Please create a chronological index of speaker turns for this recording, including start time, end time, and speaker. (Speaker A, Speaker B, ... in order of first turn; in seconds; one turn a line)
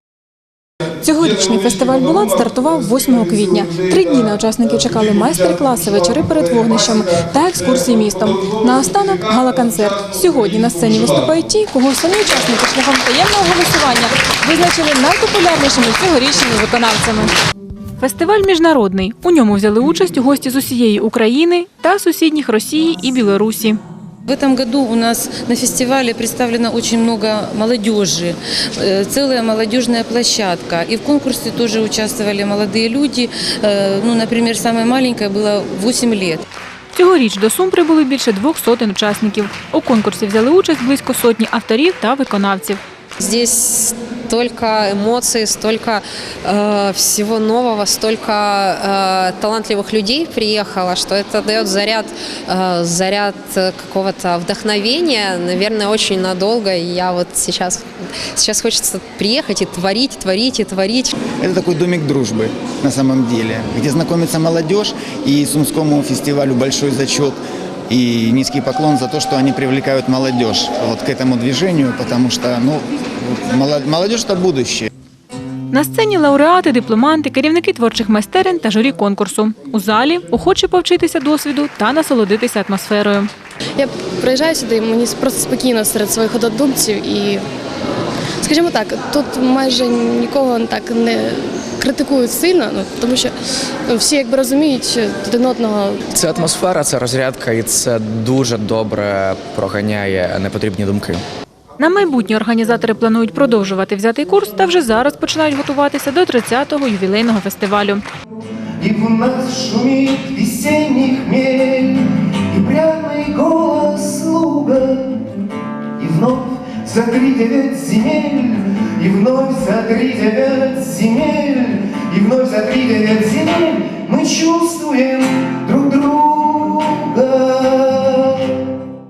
Speaker A: 1.0-17.3
Speaker A: 18.0-23.8
Speaker B: 24.3-36.4
Speaker A: 37.0-42.8
Speaker C: 43.2-61.1
Speaker D: 61.4-74.9
Speaker A: 75.7-83.3
Speaker E: 83.8-87.5
Speaker E: 88.4-93.3
Speaker E: 93.9-96.0
Speaker F: 96.1-101.2
Speaker A: 101.8-108.0
Speaker G: 108.8-115.3
Speaker G: 116.0-128.6